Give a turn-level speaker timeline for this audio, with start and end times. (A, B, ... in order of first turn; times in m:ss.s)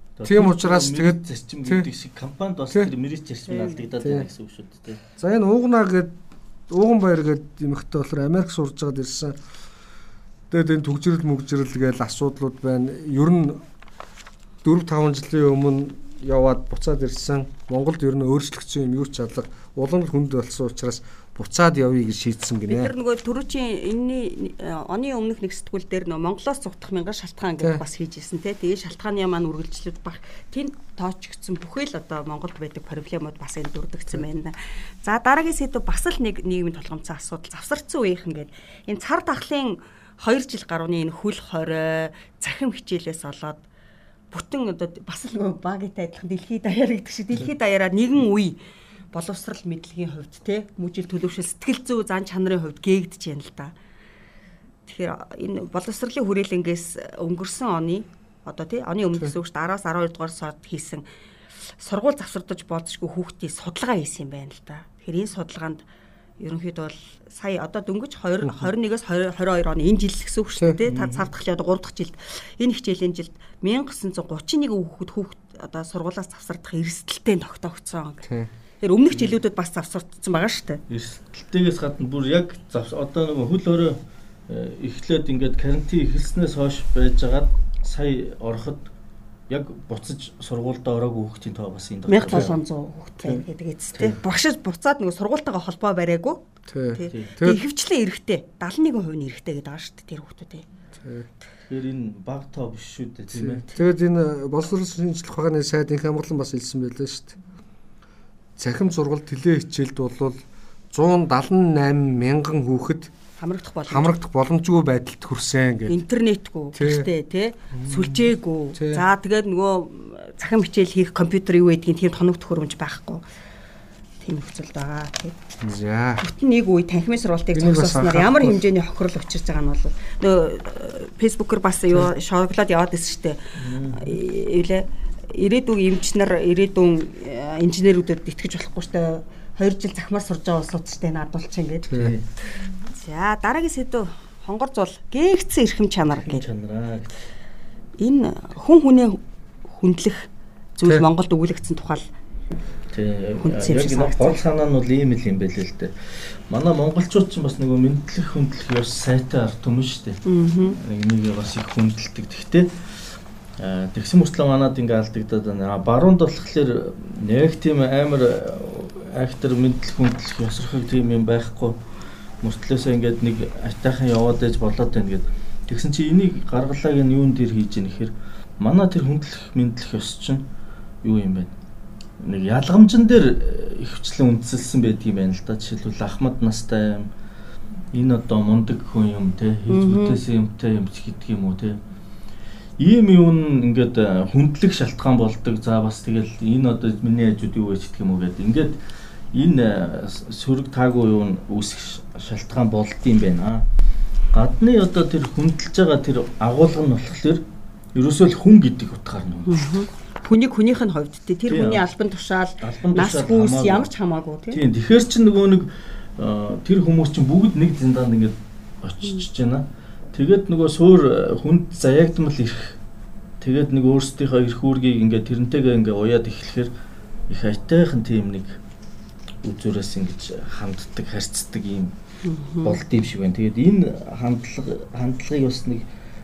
0:00.2-0:05.0 A
0:00.2-0:01.9 B
0:03.5-0:03.8 C
0:04.0-0:04.3 B
0:05.2-0:06.1 B
0:06.7-0:09.4 B
0:10.5-0:13.6 B
0:14.6-0:22.9 B
0:22.7-0:43.6 C
0:44.3-0:48.6 C
0:49.1-0:53.7 C
0:54.9-1:01.0 C
1:01.8-1:05.8 C
1:06.4-1:18.3 C
1:10.9-1:11.3 A
1:18.8-1:20.8 C
1:19.1-1:19.4 A
1:20.9-1:28.9 A
1:29.5-1:32.6 A
1:32.1-1:40.6 C
1:36.7-1:37.6 B
1:41.0-1:41.3 B
1:41.7-1:43.6 A
1:43.3-1:47.4 B
1:48.6-1:53.1 B
1:53.4-1:54.1 C
1:53.9-1:56.0 B
1:55.9-2:03.2 C
1:56.7-1:57.1 B
1:57.7-1:59.0 B
2:04.2-2:05.4 C
2:05.6-2:06.2 B
2:06.2-2:22.1 C
2:07.5-2:08.6 B
2:13.6-2:14.2 A
2:21.9-2:22.2 B
2:22.0-2:22.3 A
2:22.9-2:26.4 C
2:26.1-2:27.2 A
2:28.0-2:32.1 C
2:32.9-2:35.9 A
2:33.4-2:34.4 C
2:36.5-2:42.7 A
2:40.2-2:40.8 C
2:43.6-2:51.8 A
2:52.4-3:00.4 A
3:01.0-3:01.5 A
3:02.2-3:07.1 A
3:07.9-3:11.8 A
3:09.7-3:10.2 C
3:12.8-3:18.8 A
3:19.3-3:23.6 A
3:24.3-3:27.4 A
3:27.9-3:29.6 A
3:29.5-3:34.6 C
3:31.5-3:31.9 A
3:32.6-3:33.9 A
3:34.5-3:42.8 A
3:43.4-3:46.7 A
3:47.3-3:48.6 A
3:49.4-3:51.9 A
3:52.2-3:52.8 C
3:52.6-3:55.9 A